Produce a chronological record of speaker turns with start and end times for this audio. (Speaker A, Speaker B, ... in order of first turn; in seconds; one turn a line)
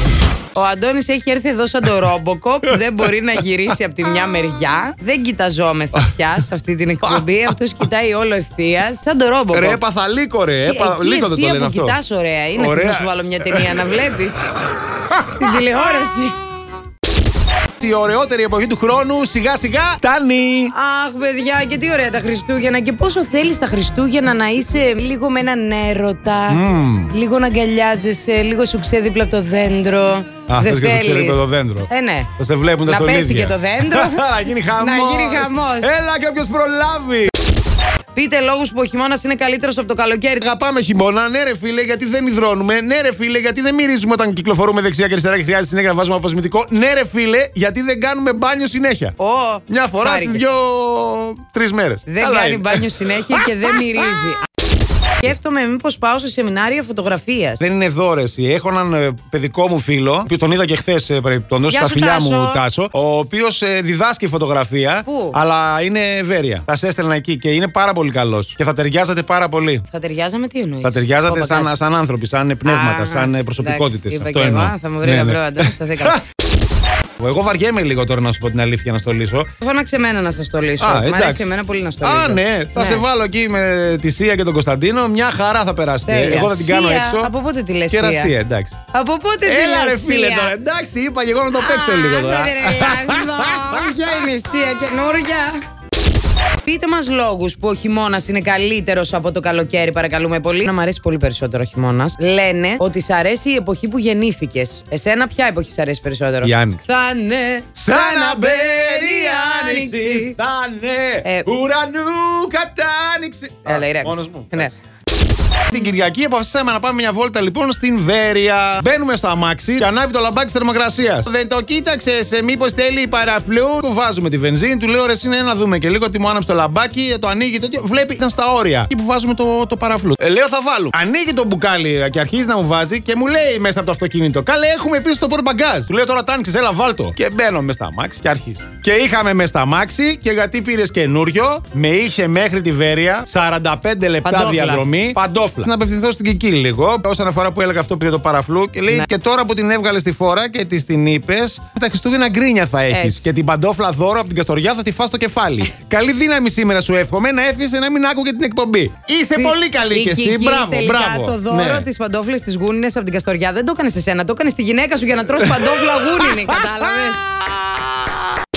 Speaker A: 0.5-9.8
Speaker B: 9.5-12.0
Speaker A: 10.7-14.5
Speaker B: 12.6-14.0
Speaker A: 15.1-16.4
Speaker B: 17.8-20.7
Speaker A: 20.7-32.3
Speaker B: 26.5-27.1
Speaker B: 30.5-37.3
Speaker A: 32.9-36.0
Speaker A: 38.1-40.5
Speaker B: 40.4-49.1
Speaker A: 49.2-50.4
Speaker B: 49.7-53.5
Speaker A: 52.1-54.4
Speaker A: 55.2-57.6
Speaker B: 57.6-69.9
Speaker A: 61.7-62.6
Speaker A: 65.1-65.4
Speaker A: 69.9-71.8
Speaker B: 70.8-76.2
Speaker A: 72.7-76.2
Speaker B: 77.2-79.5
Speaker A: 79.6-83.0
Speaker B: 80.8-81.5
Speaker B: 82.0-87.3
Speaker A: 86.1-88.3
Speaker B: 87.9-88.8
Speaker A: 88.9-90.5
Speaker B: 89.5-94.2
Speaker A: 91.5-95.6
Speaker A: 96.6-110.3
Speaker B: 106.4-106.8
Speaker B: 107.8-114.7
Speaker A: 113.7-114.7
Speaker B: 115.4-161.9
Speaker A: 144.2-144.8
Speaker A: 152.9-153.2
Speaker A: 159.3-167.2